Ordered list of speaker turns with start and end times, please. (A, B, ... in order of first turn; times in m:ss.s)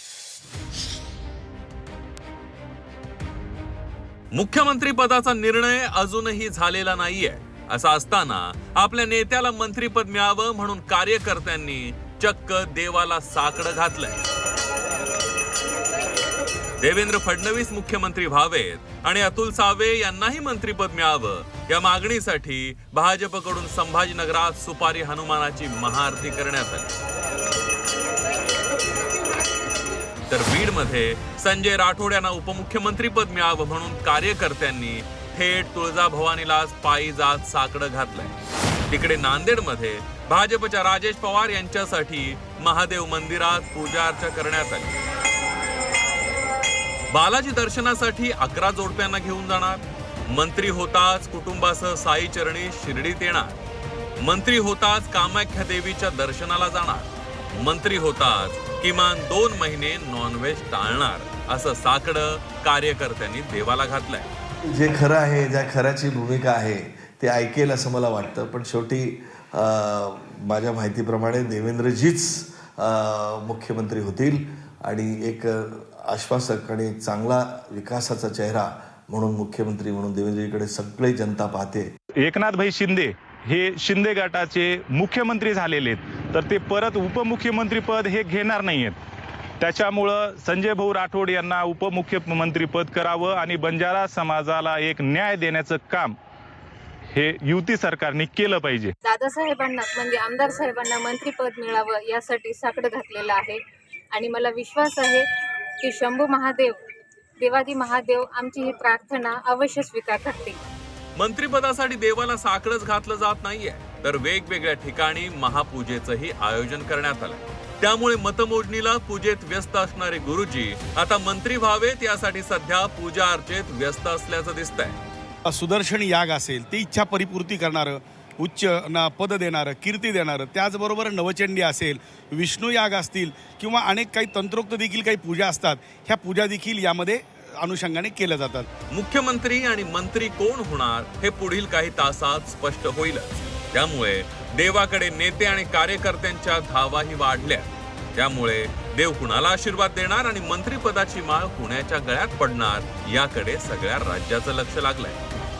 0:04.3-0:14.2 A
0:16.8-0:26.9 A
0:30.3-0:38.3 A
0:38.9-0:45.0 A
0:47.1-0:53.6 A
0:54.2-1:04.3 A
1:04.7-1:21.9 B
1:22.2-1:29.0 C
1:29.6-1:36.2 C
1:37.1-1:38.9 C
1:39.0-1:45.3 D
1:45.8-1:46.8 D
1:47.4-1:50.6 D
1:51.2-2:05.0 A
2:05.5-2:18.7 E
2:18.9-2:35.2 A